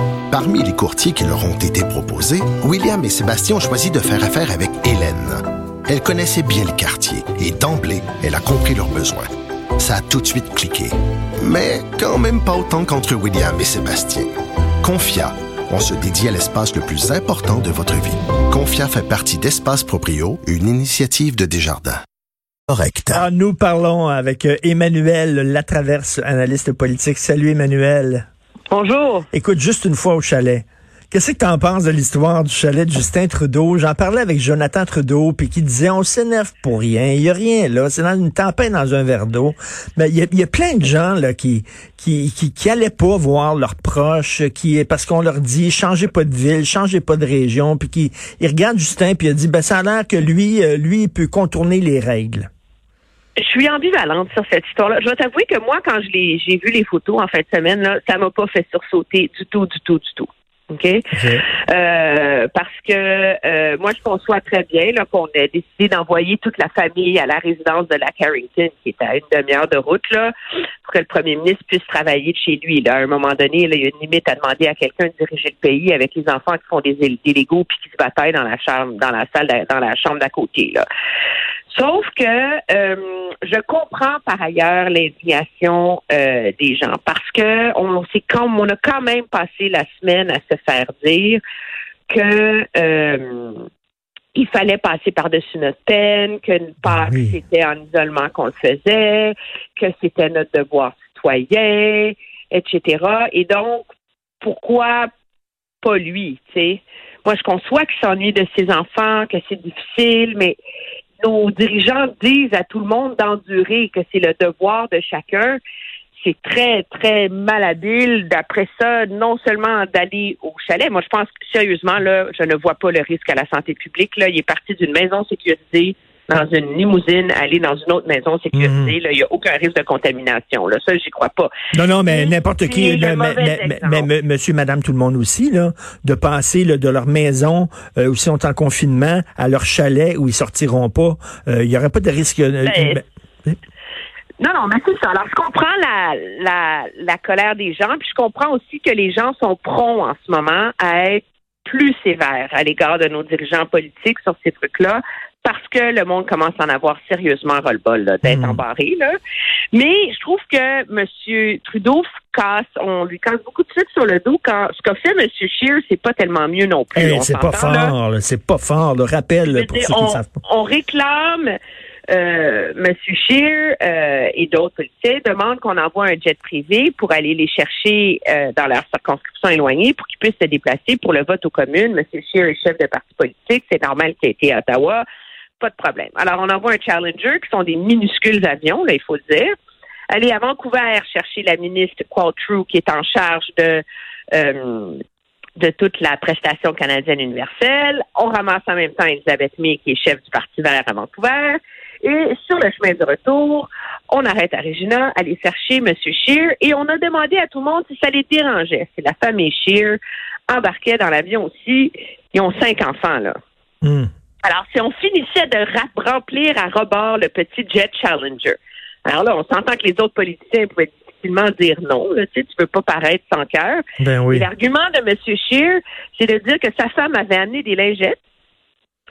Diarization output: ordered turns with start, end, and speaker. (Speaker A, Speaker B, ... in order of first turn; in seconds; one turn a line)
Speaker A: 0.3-9.2
Speaker A: 9.8-10.9
Speaker A: 11.4-14.3
Speaker A: 14.8-21.9
Speaker A: 22.7-23.2
Speaker B: 23.1-28.2
Speaker C: 28.7-29.3
Speaker B: 29.3-52.5
Speaker C: 53.4-70.3
Speaker B: 61.1-61.4
Speaker C: 70.8-80.8
Speaker C: 81.7-91.4
Speaker C: 92.1-93.6
Speaker C: 94.3-103.8
Speaker B: 96.8-97.3
Speaker C: 104.4-105.1
Speaker C: 105.8-110.6
Speaker C: 111.2-115.6
Speaker C: 116.2-131.5
Speaker B: 128.5-128.9
Speaker B: 131.7-143.6
Speaker C: 132.0-134.1
Speaker C: 142.7-143.0
Speaker C: 144.4-159.1
Speaker B: 158.2-158.6
Speaker C: 159.7-167.9
Speaker B: 166.9-170.3
Speaker C: 169.4-171.5
Speaker C: 172.1-185.0
Speaker C: 185.6-189.5
Speaker C: 190.1-195.0
Speaker C: 195.6-213.3
Speaker B: 213.8-214.1
Speaker C: 214.4-228.2
Speaker B: 224.0-224.5